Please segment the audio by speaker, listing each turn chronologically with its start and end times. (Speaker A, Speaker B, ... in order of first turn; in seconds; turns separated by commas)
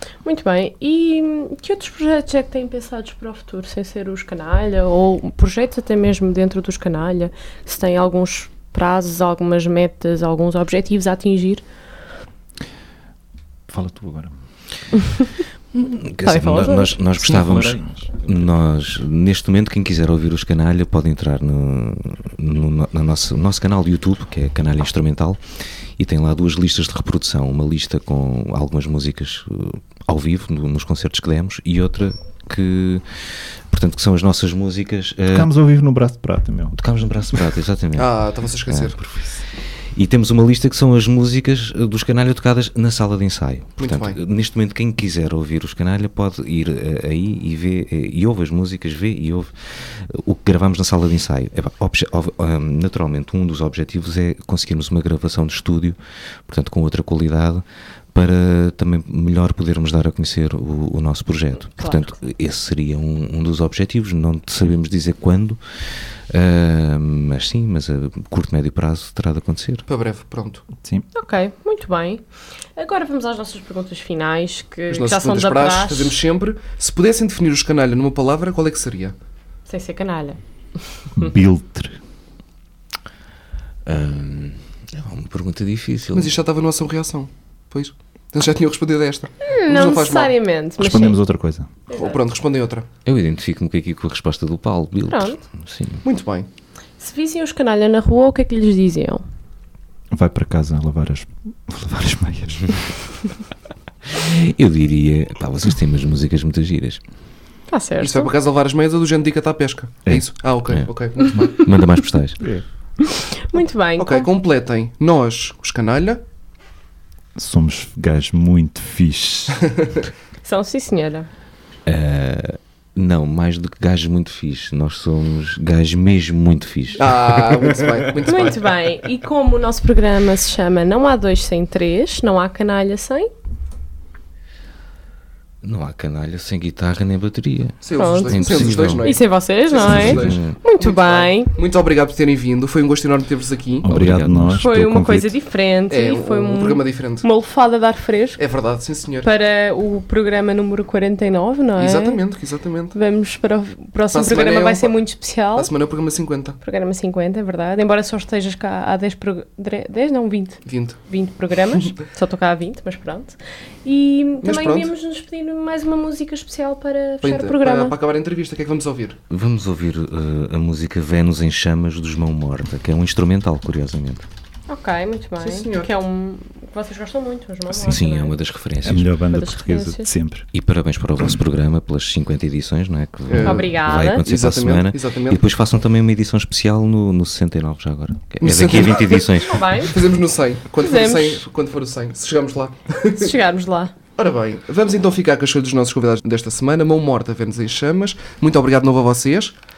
Speaker A: 0.2-11.6, Speaker B: 13.7-14.4, Speaker C: 15.7-35.5, Speaker A: 16.2-17.0, Speaker B: 17.2-18.5, Speaker B: 35.3-36.8, Speaker C: 36.7-69.9, Speaker D: 38.0-39.0, Speaker D: 43.8-44.2, Speaker A: 61.8-62.1, Speaker D: 69.9-70.7, Speaker B: 70.8-71.0, Speaker A: 71.1-72.2, Speaker A: 72.8-76.2, Speaker D: 74.9-79.1, Speaker A: 79.7-81.0, Speaker B: 81.2-82.0, Speaker C: 83.8-86.4, Speaker D: 86.1-90.3, Speaker A: 89.4-91.2, Speaker B: 90.8-91.7, Speaker A: 91.9-92.2, Speaker D: 91.9-92.8, Speaker C: 93.0-96.0, Speaker A: 95.1-95.4, Speaker D: 96.0-96.5, Speaker A: 97.0-99.2, Speaker B: 100.1-102.9, Speaker C: 104.0-107.0, Speaker A: 107.7-108.3, Speaker D: 108.0-111.6, Speaker C: 110.7-112.4, Speaker A: 111.3-111.8, Speaker B: 112.4-112.6, Speaker A: 113.0-114.3, Speaker D: 114.0-116.2, Speaker B: 117.3-119.7, Speaker A: 120.4-121.3, Speaker C: 121.8-127.9, Speaker D: 127.0-128.6, Speaker A: 128.2-133.3, Speaker C: 135.6-139.2, Speaker D: 137.8-143.9, Speaker A: 137.9-141.5, Speaker C: 139.7-140.6, Speaker B: 143.8-145.3, Speaker C: 143.8-144.6, Speaker A: 144.5-148.4, Speaker D: 145.9-147.3, Speaker D: 148.4-149.3, Speaker A: 149.2-152.2, Speaker D: 151.8-152.9, Speaker A: 152.9-155.7, Speaker D: 154.1-155.0, Speaker D: 155.5-156.6, Speaker A: 156.6-167.9, Speaker D: 160.6-161.0, Speaker D: 164.4-164.9, Speaker D: 167.2-169.2, Speaker C: 169.3-174.2, Speaker A: 174.7-178.3, Speaker D: 175.4-175.9, Speaker C: 177.8-179.1, Speaker B: 178.8-180.4, Speaker A: 179.3-180.1, Speaker C: 180.5-190.0, Speaker D: 183.3-185.4, Speaker A: 183.4-184.2, Speaker D: 188.4-193.3, Speaker A: 188.7-190.1, Speaker A: 190.8-191.4, Speaker A: 193.1-193.9, Speaker D: 194.2-199.5